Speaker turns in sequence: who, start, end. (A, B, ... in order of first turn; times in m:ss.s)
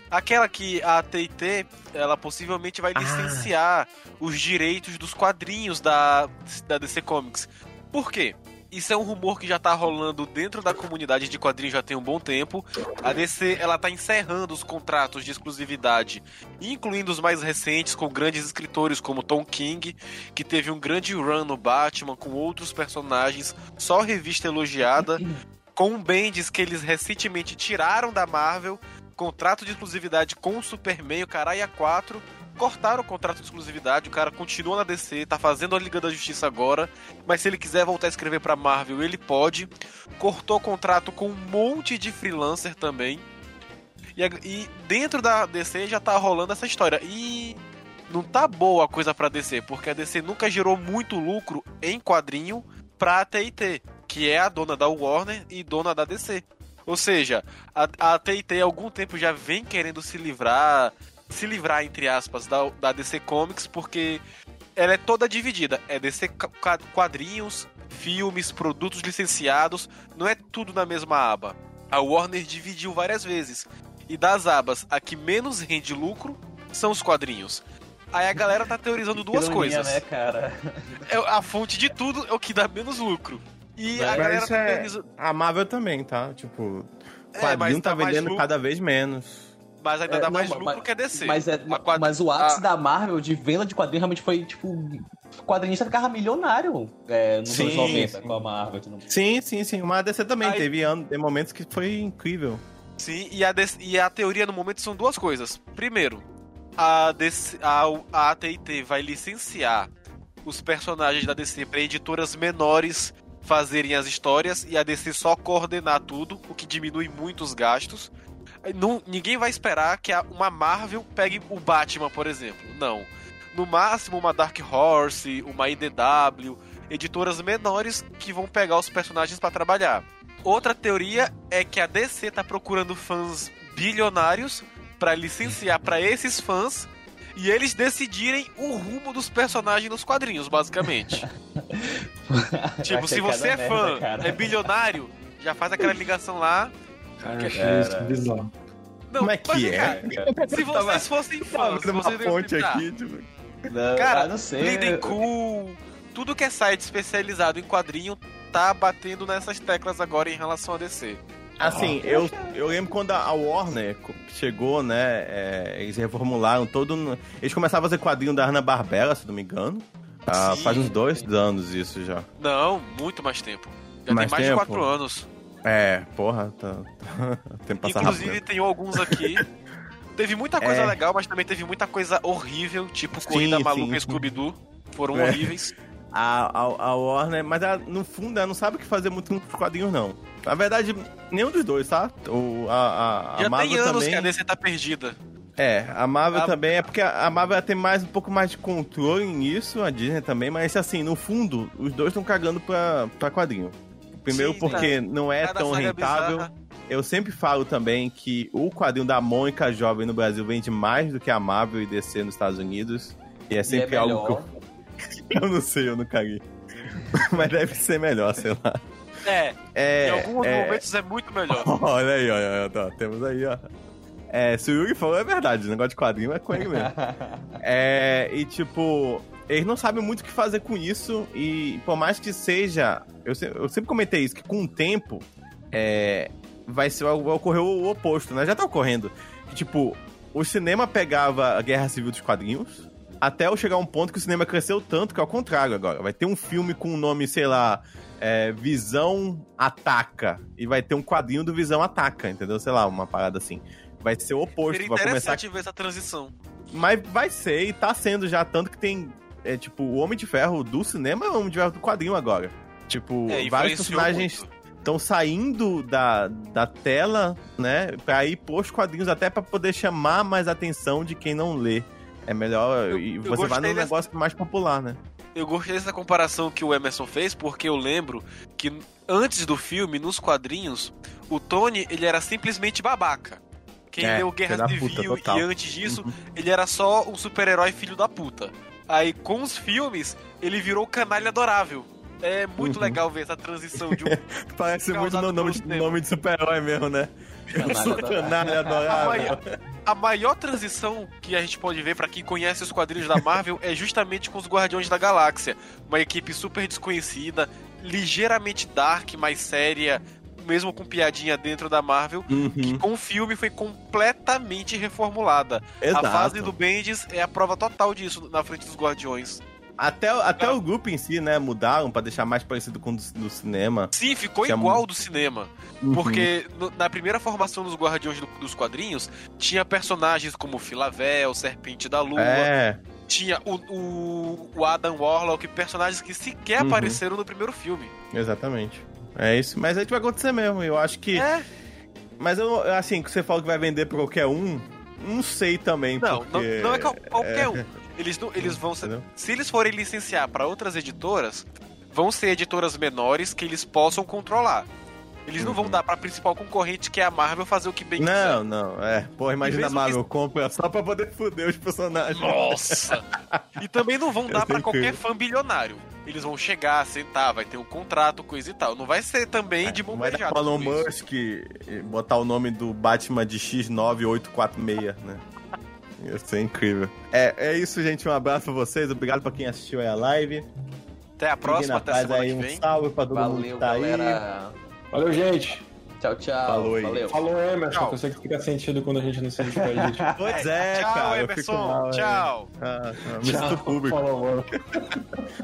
0:00.1-0:43.2 A
0:03.0-0:03.5 B
0:44.2-1:04.2 A
1:04.8-1:20.0 A
1:19.2-1:21.1 C
1:21.0-1:25.0 A
1:24.0-1:29.5 B
1:24.0-1:24.2 C
1:27.3-1:28.4 A
1:29.8-1:32.6 A
1:30.1-1:39.1 C
1:37.5-1:38.4 B
1:37.6-1:38.0 A
1:39.1-1:42.6 B
1:40.4-1:40.7 A
1:43.0-1:46.2 A
1:46.8-1:49.9 A
1:50.4-1:58.1 A
1:58.6-2:21.2 A
2:21.1-2:24.6 C
2:22.8-2:26.7 A
2:27.2-2:28.5 D
2:27.5-2:28.2 C
2:29.1-2:32.8 A
2:29.2-2:33.2 B
2:29.7-2:30.4 C
2:33.7-2:35.2 C
2:34.0-2:41.2 A
2:41.6-2:52.2 B
2:41.6-2:42.0 D
2:41.6-2:42.9 C
2:50.3-2:51.0 A
2:50.7-2:51.3 C
2:52.4-2:55.3 A
2:54.1-2:54.9 B
2:55.6-2:58.4 B
2:57.8-2:59.4 A
2:58.9-2:59.4 B
3:00.2-3:05.7 A
3:00.6-3:01.0 B
3:03.2-3:04.2 B
3:05.1-3:05.6 B
3:06.1-3:14.3 B
3:13.4-3:15.2 A
3:15.6-3:34.4 B
3:16.3-3:16.8 A
3:24.3-3:26.5 A
3:33.6-3:34.5 C
3:35.3-3:38.8 B
3:39.2-3:41.7 A
3:39.7-3:40.8 B
3:41.5-3:43.6 B
3:44.3-3:46.9 B
3:46.6-3:47.6 C
3:47.6-4:15.4 B
4:14.6-4:16.3 A
4:16.7-4:35.0 B
4:23.3-4:24.5 A
4:32.9-4:34.0 A
4:35.3-4:43.4 A
4:43.9-4:54.1 A
4:44.0-4:46.1 B
4:52.6-4:53.0 B
4:53.8-4:59.4 B
4:54.9-4:56.0 A
4:57.5-4:58.9 C
4:58.9-5:19.4 A
5:12.3-5:12.8 B
5:15.8-5:16.5 B
5:19.8-5:23.9 B
5:23.9-5:32.5 A
5:24.4-5:24.8 B
5:25.8-5:26.3 B
5:32.2-5:32.8 B
5:33.1-5:37.9 A
5:36.6-5:37.0 B
5:38.1-5:41.3 B
5:41.1-5:41.4 A
5:42.2-5:47.6 B
5:46.0-5:54.7 A
5:48.4-5:49.0 B
5:55.2-5:58.4 A
5:55.4-5:55.8 B
5:58.0-6:03.4 B
5:59.4-6:00.0 A
6:02.1-6:03.0 A
6:03.6-6:10.9 A
6:04.3-6:05.0 B
6:09.6-6:15.2 B
6:16.0-6:20.5 B
6:21.2-6:22.6 A
6:21.4-6:24.2 B
6:23.1-6:24.5 C
6:24.9-6:25.6 D
6:26.0-6:27.2 C
6:26.4-6:27.1 B
6:27.1-6:30.0 D
6:27.7-6:28.0 A
6:29.5-6:30.3 C
6:30.2-6:34.0 B
6:30.3-6:32.5 A
6:33.2-6:35.0 D